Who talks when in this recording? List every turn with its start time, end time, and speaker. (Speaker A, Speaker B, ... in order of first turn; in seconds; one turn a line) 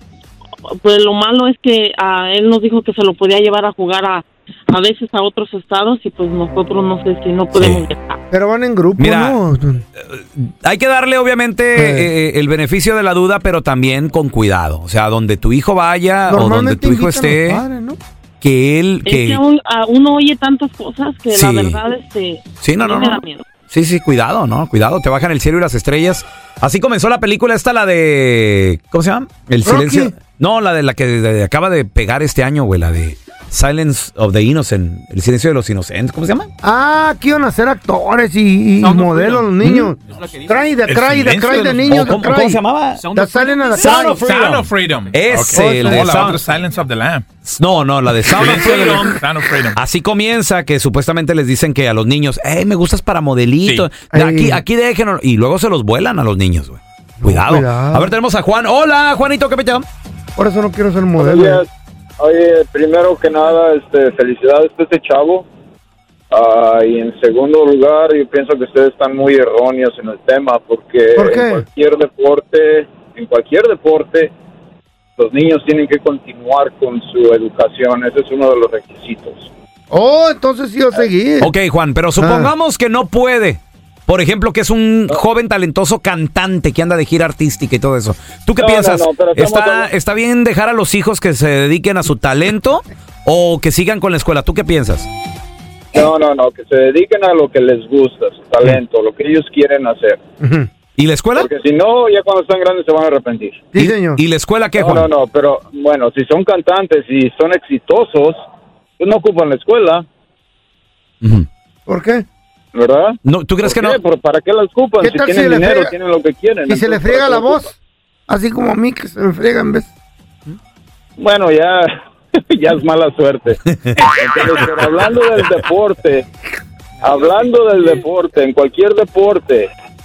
Speaker A: 0.8-8.2
Speaker B: 7.5-7.8
Speaker C: 8.3-9.8
Speaker B: 9.0-9.4
Speaker B: 10.0-17.6
Speaker C: 11.8-12.1
Speaker C: 16.3-18.0
Speaker B: 18.4-19.4
Speaker A: 19.1-23.4
Speaker B: 21.3-21.8
Speaker B: 22.6-36.5
Speaker C: 29.6-30.1
Speaker C: 36.6-42.6
Speaker B: 38.8-39.9
Speaker D: 40.9-42.0
Speaker B: 41.9-46.4
Speaker C: 43.1-44.2
Speaker D: 43.8-47.2
Speaker C: 45.5-46.3
Speaker B: 47.5-49.2
Speaker D: 48.3-49.8
Speaker B: 49.7-59.8
Speaker C: 54.1-54.6
Speaker C: 57.2-58.1
Speaker C: 60.4-61.6
Speaker E: 61.2-61.7
Speaker E: 62.2-65.5
Speaker E: 66.3-74.3
Speaker C: 71.2-71.6
Speaker E: 75.2-79.5
Speaker C: 79.9-81.5
Speaker B: 81.4-95.1
Speaker C: 82.2-82.5
Speaker E: 88.6-89.9
Speaker E: 95.9-100.2
Speaker C: 100.4-100.7
Speaker B: 101.0-101.5
Speaker E: 101.3-103.6
Speaker C: 103.7-104.2
Speaker B: 103.8-105.1
Speaker E: 104.8-108.4
Speaker E: 109.0-110.0
Speaker B: 111.2-111.5
Speaker C: 111.9-112.2
Speaker E: 112.7-117.7
Speaker B: 113.2-114.0
Speaker C: 115.0-115.9
Speaker C: 116.7-117.7
Speaker C: 118.3-119.9
Speaker E: 121.2-126.3
Speaker E: 127.0-129.7